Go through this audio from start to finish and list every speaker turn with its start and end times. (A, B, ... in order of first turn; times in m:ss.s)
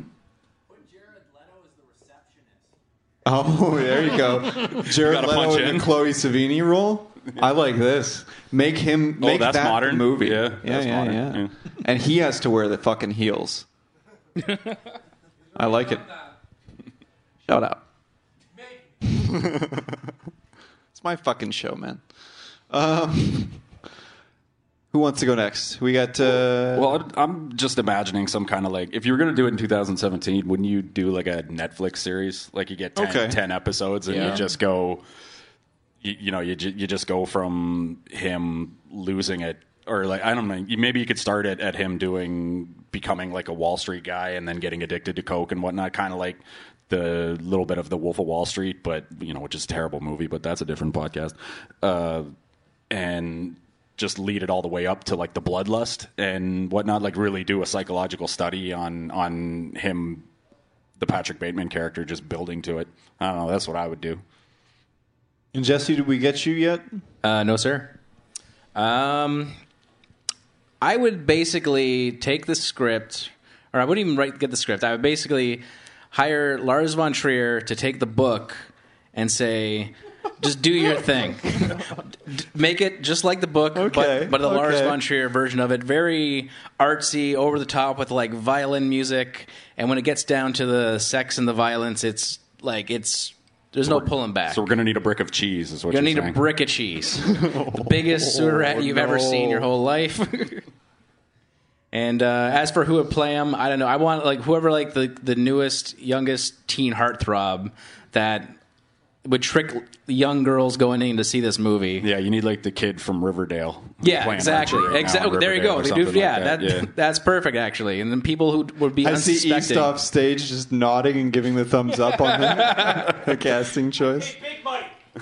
0:03.2-0:13.7 A
0:04.6-0:05.9 B
0:09.2-0:11.5 B
0:15.6-0:16.1 A
0:17.5-0:17.8 A
0:19.0-0:20.0 A
0:20.9-0:22.0 A
0:22.7-0:23.7 A
0:24.9-0:27.0 A
0:26.7-0:35.0 B
0:33.0-0:33.4 A
0:36.0-0:52.3 B
0:52.9-1:00.3 B
1:01.0-1:04.2 B
1:05.5-1:06.9 A
1:07.2-1:08.0 C
1:08.8-1:09.6 C
1:10.8-1:34.6 C
1:23.8-1:25.0 A
1:33.9-1:36.4 B
1:35.9-1:40.7 C
1:37.5-1:37.8 A
1:38.4-1:39.5 A
1:41.9-1:48.6 C
1:49.2-1:52.1 C
1:52.0-1:56.9 B
1:54.0-2:00.0 C
1:59.0-2:04.4 A